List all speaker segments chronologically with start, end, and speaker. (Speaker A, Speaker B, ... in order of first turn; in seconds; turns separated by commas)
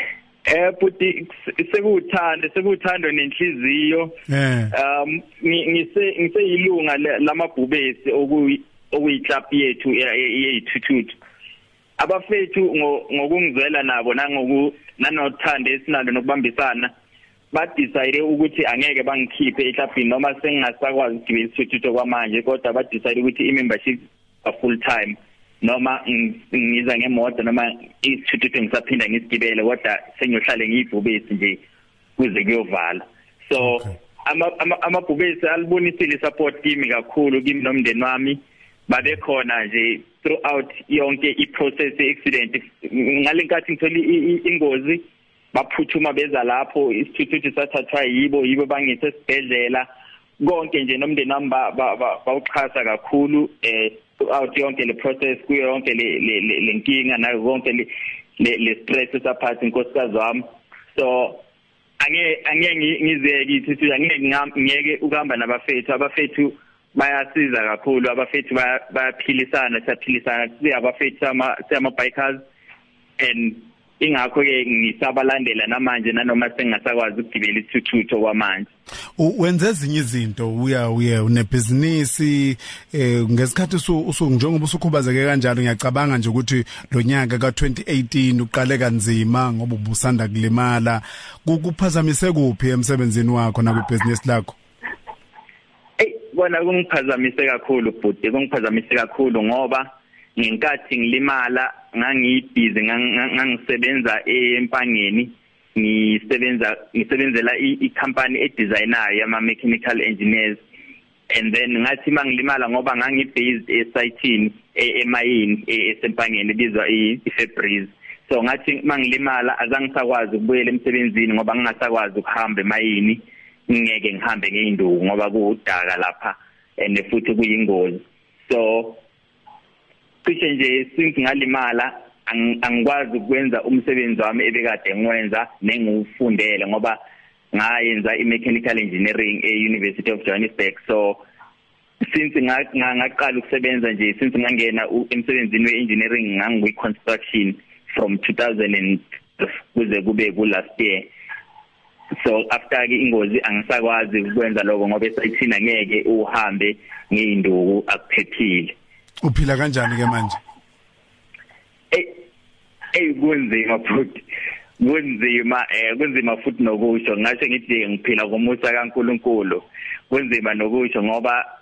Speaker A: 0.5-4.2, Speaker B: 4.3-4.7, Speaker A: 4.7-11.2, Speaker A: 12.0-16.9, Speaker A: 17.5-31.6, Speaker A: 32.2-49.9, Speaker A: 50.4-60.4, Speaker A: 60.9-61.4, Speaker A: 62.0-72.4, Speaker A: 73.2-78.7, Speaker B: 79.2-94.5, Speaker A: 96.0-110.6, Speaker A: 111.3-129.0, Speaker A: 130.2-137.0, Speaker A: 137.5-141.2, Speaker A: 142.1-151.1, Speaker A: 152.2-158.7, Speaker B: 159.2-160.4, Speaker A: 161.9-162.2, Speaker A: 162.9-164.2, Speaker A: 164.8-171.4